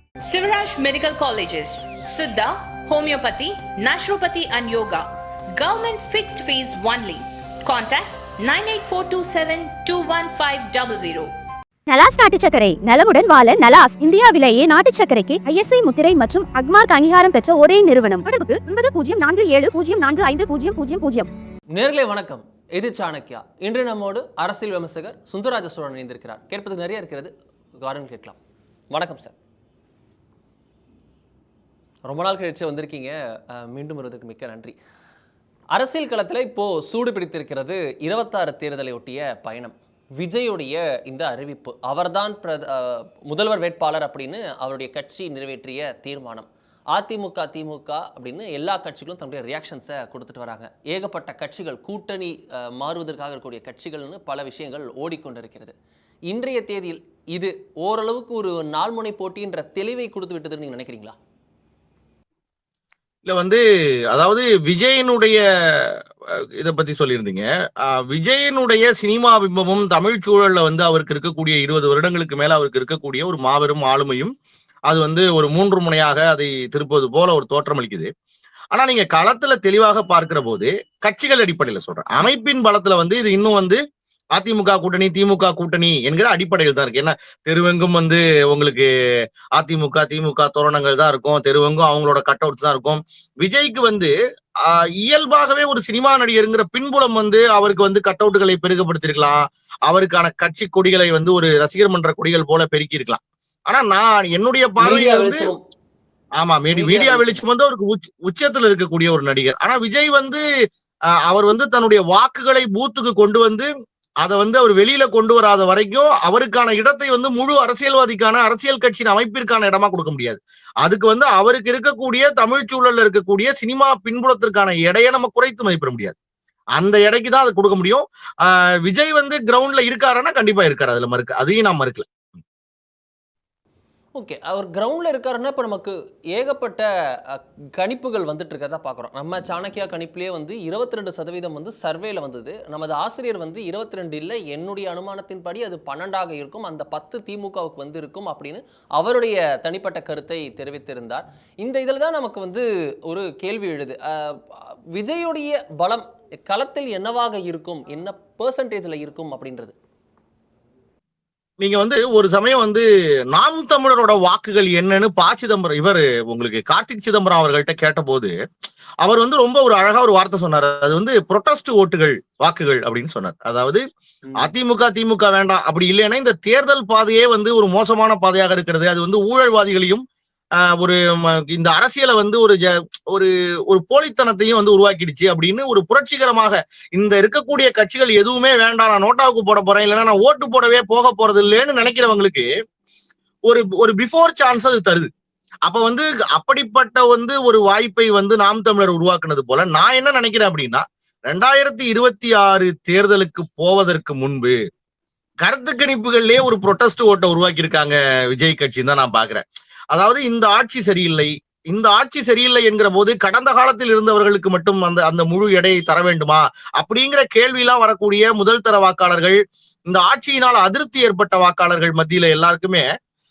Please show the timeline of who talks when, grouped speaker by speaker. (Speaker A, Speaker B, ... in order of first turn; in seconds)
Speaker A: 0.3-11.3
Speaker B: 11.9-21.3
Speaker C: 21.7-27.3, 27.8-28.4, 28.9-29.3, 32.1-34.7, 35.7-55.7, 56.3-61.1, 104.8-105.6, 106.7-107.4, 134.1-159.7
Speaker D: 63.2-74.3, 74.9-78.1, 78.7-83.8, 84.3-88.9, 89.5-105.5, 106.4-110.4, 111.3-113.7, 114.2-126.2, 126.8-132.1, 161.6-168.3, 169.0-173.8, 174.4-180.0, 180.8-192.5, 193.5-195.1, 195.7-204.6, 205.4-222.8